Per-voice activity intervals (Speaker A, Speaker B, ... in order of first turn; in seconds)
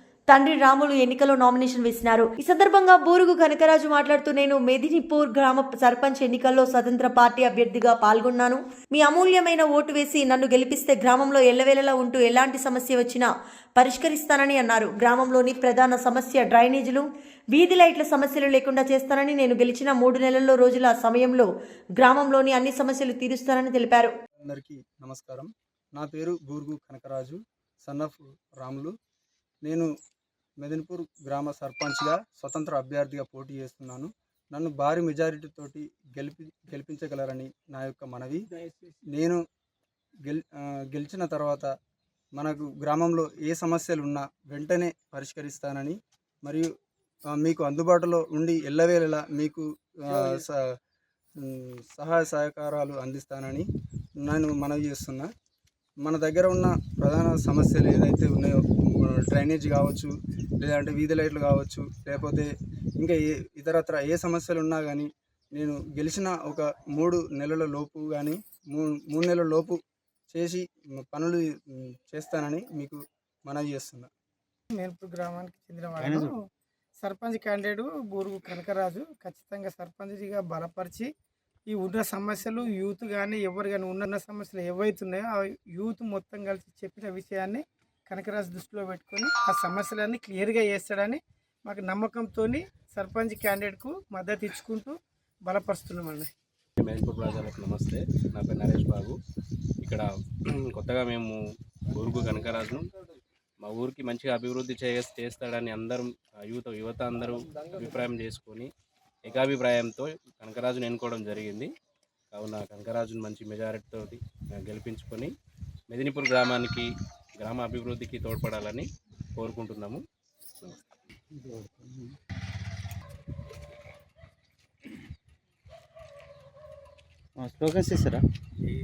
Speaker A: 0.3-24.1
Speaker B: 24.4-28.9, 29.6-29.9, 30.6-38.4, 39.1-39.4, 40.2-41.7, 42.4-46.7, 47.4-50.6, 51.4-53.6, 54.2-55.3, 56.0-69.8, 70.3-74.1
Speaker C: 74.7-76.3, 77.0-81.1, 81.7-96.3
Speaker D: 76.0-76.3, 121.3-122.2, 127.4-128.2
Speaker E: 96.8-99.2, 99.8-101.4, 101.9-102.9, 103.6-108.7, 109.2-111.7, 112.3-115.3, 115.9-116.9, 117.4-120.0